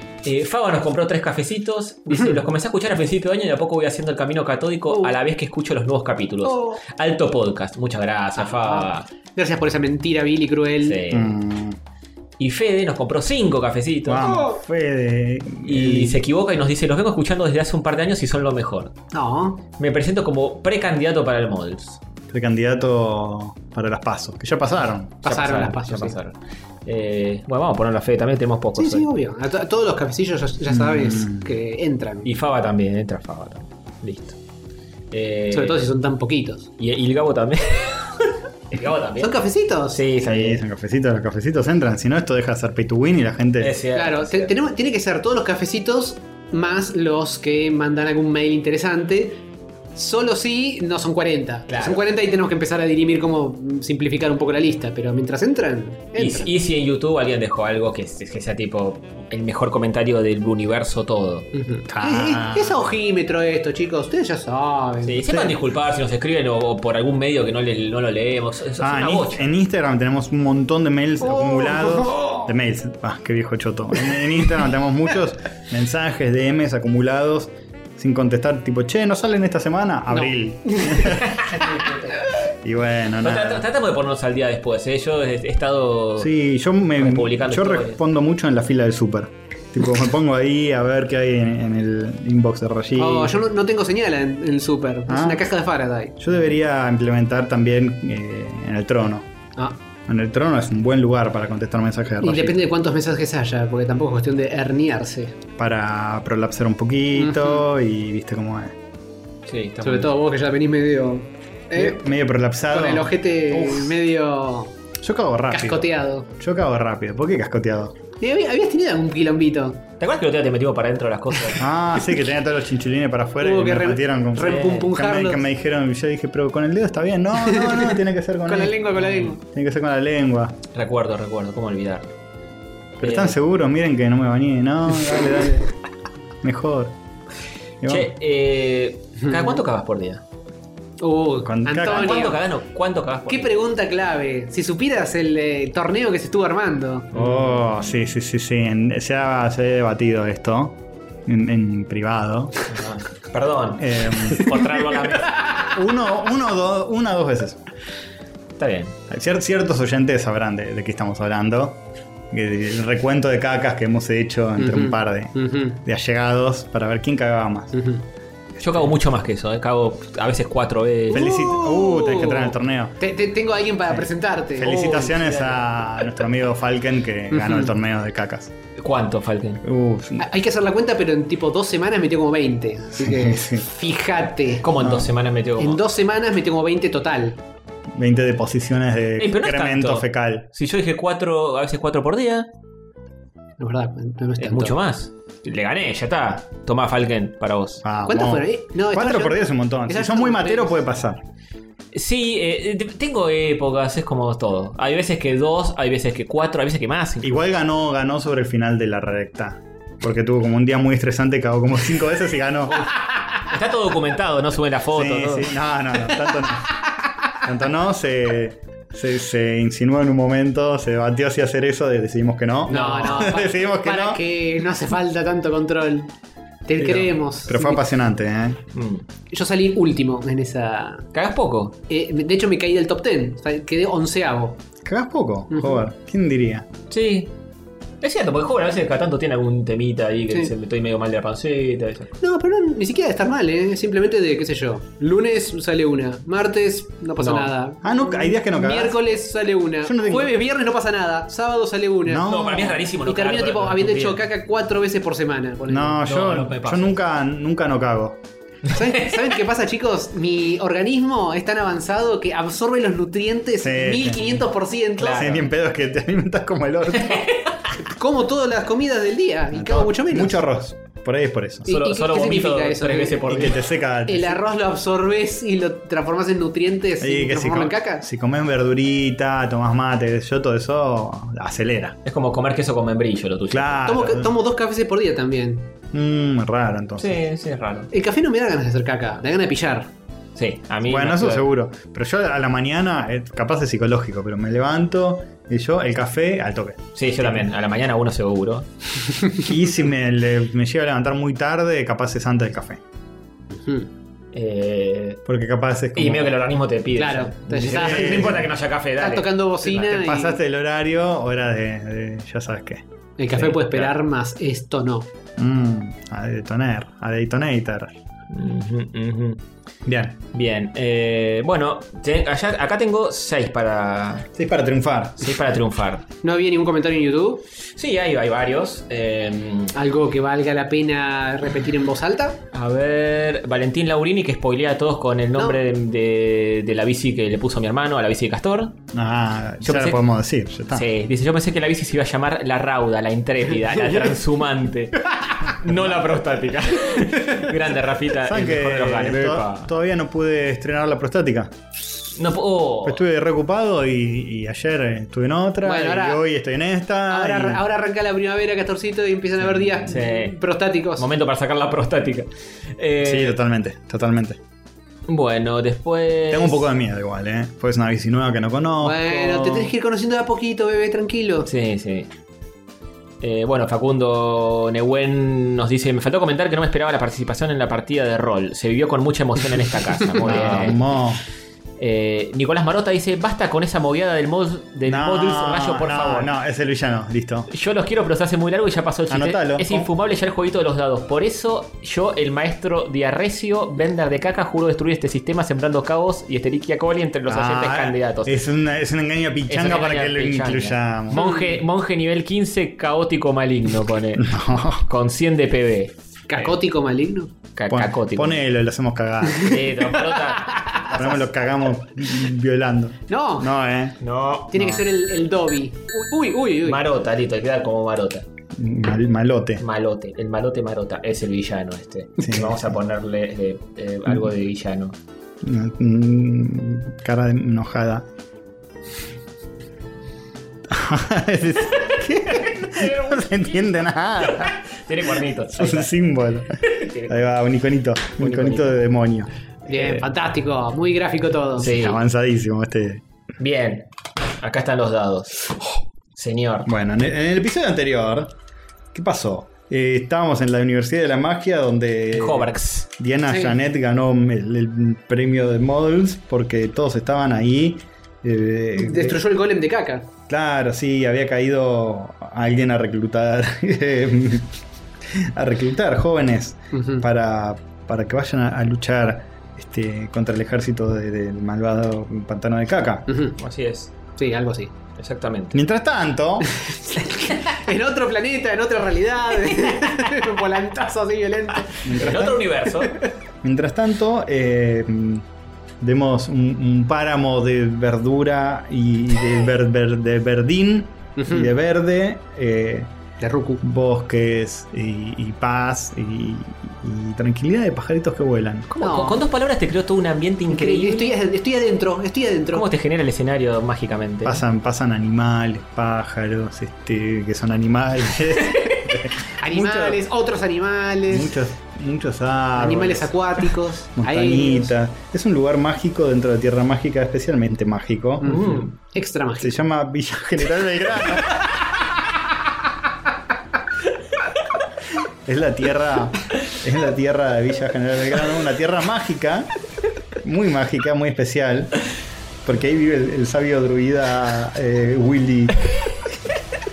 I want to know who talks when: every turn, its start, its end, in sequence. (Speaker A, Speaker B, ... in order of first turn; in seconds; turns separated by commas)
Speaker A: 0.2-9.1, Speaker B: 6.4-6.8, Speaker B: 8.4-11.0, Speaker A: 10.8-11.4, Speaker C: 11.1-11.8, Speaker A: 12.4-14.4, Speaker C: 14.1-16.2, Speaker B: 14.2-14.6, Speaker A: 15.7-19.0, Speaker B: 19.1-19.6, Speaker A: 19.8-22.0, Speaker C: 22.3-25.3, Speaker B: 25.2-26.2, Speaker A: 25.2-29.1, Speaker B: 28.8-32.3, Speaker C: 30.7-31.5, Speaker A: 32.2-34.4, Speaker A: 35.1-35.8, Speaker B: 35.5-36.7, Speaker A: 36.8-40.6, Speaker B: 39.2-40.0, Speaker C: 40.2-43.8, Speaker A: 43.6-44.5, Speaker B: 43.9-49.4, Speaker B: 50.0-56.5, Speaker A: 51.7-52.0, Speaker A: 56.2-61.5, Speaker B: 61.5-65.5, Speaker C: 61.9-62.8, Speaker A: 65.0-69.4, Speaker C: 68.8-81.5, Speaker B: 71.2-72.5, Speaker B: 80.1-82.1, Speaker A: 81.1-81.8, Speaker C: 82.6-83.7, Speaker A: 83.2-86.3, Speaker C: 86.2-93.4, Speaker A: 87.0-88.0, Speaker B: 93.0-96.2, Speaker C: 95.1-95.5, Speaker C: 96.2-99.3, Speaker C: 100.1-102.7, Speaker B: 102.2-105.4, Speaker C: 105.6-108.8, Speaker B: 107.2-107.7, Speaker A: 109.5-110.1, Speaker B: 109.8-112.0, Speaker C: 111.7-113.9, Speaker B: 112.7-114.8, Speaker C: 115.0-118.0, Speaker B: 115.5-116.3, Speaker B: 118.2-119.8, Speaker A: 120.0-121.6, Speaker C: 121.6-130.6, Speaker B: 123.4-125.5, Speaker A: 124.4-124.9, Speaker B: 127.4-129.4, Speaker A: 129.0-129.3, Speaker A: 130.7-132.1, Speaker C: 133.0-135.7, Speaker A: 133.0-133.4, Speaker C: 136.4-136.9, Speaker C: 137.8-138.1, Speaker A: 137.9-140.2, Speaker B: 139.2-139.6, Speaker B: 141.0-142.4, Speaker C: 141.4-142.3, Speaker A: 141.8-143.5, Speaker B: 143.3-147.1, Speaker A: 147.1-148.0, Speaker C: 147.1-152.6, Speaker A: 152.7-155.4, Speaker C: 153.8-154.5, Speaker B: 155.4-155.7, Speaker C: 155.7-157.6, Speaker A: 158.6-159.0, Speaker C: 159.1-167.7, Speaker B: 164.6-165.8, Speaker B: 167.7-168.1, Speaker A: 168.6-171.3, Speaker C: 171.1-173.0, Speaker B: 171.1-175.3, Speaker C: 173.9-178.5, Speaker A: 174.7-175.6, Speaker B: 177.3-177.7, Speaker A: 178.8-179.6, Speaker C: 179.6-180.3, Speaker B: 180.2-184.7, Speaker C: 183.0-183.7, Speaker A: 184.6-185.8, Speaker C: 184.8-185.1, Speaker B: 185.6-187.4, Speaker C: 187.9-190.5, Speaker A: 189.2-192.5, Speaker B: 193.6-194.8, Speaker A: 194.4-197.8, Speaker C: 197.8-201.2, Speaker B: 198.1-200.8, Speaker A: 201.9-207.3, Speaker C: 207.2-212.9, Speaker A: 213.3-215.6, Speaker C: 214.9-216.8, Speaker C: 217.4-224.2, Speaker B: 222.7-226.1, Speaker A: 222.7-223.3, Speaker B: 226.7-227.8, Speaker C: 226.8-228.6, Speaker A: 228.7-229.1, Speaker B: 229.3-231.1, Speaker A: 231.1-231.8, Speaker B: 231.9-234.6, Speaker C: 234.8-236.7, Speaker B: 235.5-235.8, Speaker A: 236.9-237.3, Speaker A: 238.0-242.1, Speaker B: 242.2-256.0, Speaker A: 247.2-247.5, Speaker C: 247.8-249.0, Speaker C: 249.8-250.3, Speaker C: 252.1-252.8, Speaker A: 252.2-254.2, Speaker C: 255.7-258.2, Speaker A: 256.0-257.0, Speaker B: 258.7-265.4, Speaker C: 263.6-264.4, Speaker A: 265.0-265.5, Speaker C: 265.1-267.3, Speaker A: 267.1-267.6, Speaker B: 267.8-270.4, Speaker C: 269.5-271.7, Speaker B: 271.6-273.5, Speaker A: 271.7-273.6, Speaker C: 273.3-274.4, Speaker B: 274.1-278.1, Speaker C: 277.0-282.0, Speaker A: 282.1-284.0, Speaker C: 283.5-284.3, Speaker B: 283.9-285.7, Speaker C: 285.9-287.2, Speaker A: 287.0-287.9, Speaker B: 287.9-289.9, Speaker A: 290.4-291.5, Speaker C: 290.9-297.5, Speaker A: 297.0-298.7, Speaker C: 299.4-302.8, Speaker B: 303.5-303.9, Speaker A: 304.3-305.2, Speaker C: 305.3-306.4, Speaker A: 305.9-309.9, Speaker B: 306.9-308.4, Speaker C: 307.6-308.5, Speaker B: 309.0-310.4, Speaker C: 309.8-312.8, Speaker B: 313.2-315.1, Speaker A: 313.4-313.9, Speaker C: 315.4-317.9, Speaker A: 318.3-319.4, Speaker C: 319.9-320.2, Speaker A: 320.3-324.3, Speaker C: 324.3-325.3, Speaker A: 325.2-326.1, Speaker B: 326.2-327.4, Speaker A: 327.8-329.7, Speaker B: 329.7-332.4, Speaker A: 332.5-338.8, Speaker C: 338.9-340.9, Speaker A: 339.6-340.0, Speaker A: 340.7-349.7, Speaker C: 345.7-345.9, Speaker C: 348.2-351.5, Speaker A: 352.1-353.0, Speaker C: 352.8-357.6, Speaker B: 355.6-356.2, Speaker B: 357.1-361.1, Speaker A: 359.9-360.4, Speaker A: 361.0-363.4, Speaker C: 363.0-364.4, Speaker A: 365.1-366.6, Speaker C: 366.3-369.7, Speaker B: 368.8-371.5, Speaker A: 371.5-372.1, Speaker A: 373.2-380.8, Speaker C: 380.2-381.2, Speaker A: 381.8-386.3, Speaker C: 384.9-387.5, Speaker A: 387.5-398.4, Speaker C: 389.1-389.9, Speaker C: 397.3-401.2, Speaker A: 399.5-406.6, Speaker B: 401.1-401.6, Speaker C: 404.2-404.9, Speaker B: 406.3-407.3, Speaker A: 407.6-408.4, Speaker C: 407.7-409.6, Speaker A: 409.4-410.6, Speaker B: 410.1-410.9, Speaker C: 410.9-414.0, Speaker B: 413.1-413.5, Speaker A: 414.0-414.6, Speaker B: 414.5-416.8, Speaker A: 416.6-418.3, Speaker C: 418.5-419.6, Speaker A: 419.6-425.0, Speaker C: 422.2-422.7, Speaker C: 425.4-428.1, Speaker C: 430.7-434.6, Speaker A: 432.3-435.9, Speaker C: 435.6-440.0, Speaker A: 436.6-437.2, Speaker A: 438.2-438.8, Speaker B: 439.7-441.8, Speaker A: 441.6-442.0, Speaker C: 441.6-443.0, Speaker A: 443.4-443.9, Speaker A: 444.4-445.6, Speaker A: 446.1-446.7, Speaker C: 446.7-448.3, Speaker C: 448.9-459.2, Speaker A: 452.1-452.9, Speaker B: 453.3-453.6, Speaker B: 458.8-460.1, Speaker C: 460.3-464.5, Speaker C: 465.1-473.1, Speaker B: 466.7-467.1, Speaker B: 473.1-473.4, Speaker A: 473.4-473.9, Speaker B: 474.2-474.7, Speaker A: 475.0-475.6, Speaker C: 475.5-476.5, Speaker B: 476.6-482.3, Speaker C: 481.8-482.4, Speaker A: 481.9-483.0, Speaker C: 483.4-485.2, Speaker C: 485.8-492.9, Speaker B: 491.2-491.5, Speaker B: 493.2-493.6, Speaker C: 493.6-498.7, Speaker A: 498.7-501.2, Speaker B: 498.8-499.2, Speaker B: 500.5-502.7, Speaker A: 502.5-504.4, Speaker C: 504.2-510.0, Speaker B: 509.4-511.4, Speaker C: 511.1-513.1, Speaker B: 512.6-514.8, Speaker C: 514.0-518.5, Speaker B: 518.2-519.6, Speaker A: 518.2-518.7, Speaker C: 519.4-521.5, Speaker C: 525.2-529.5, Speaker C: 530.2-531.8, Speaker C: 532.5-535.7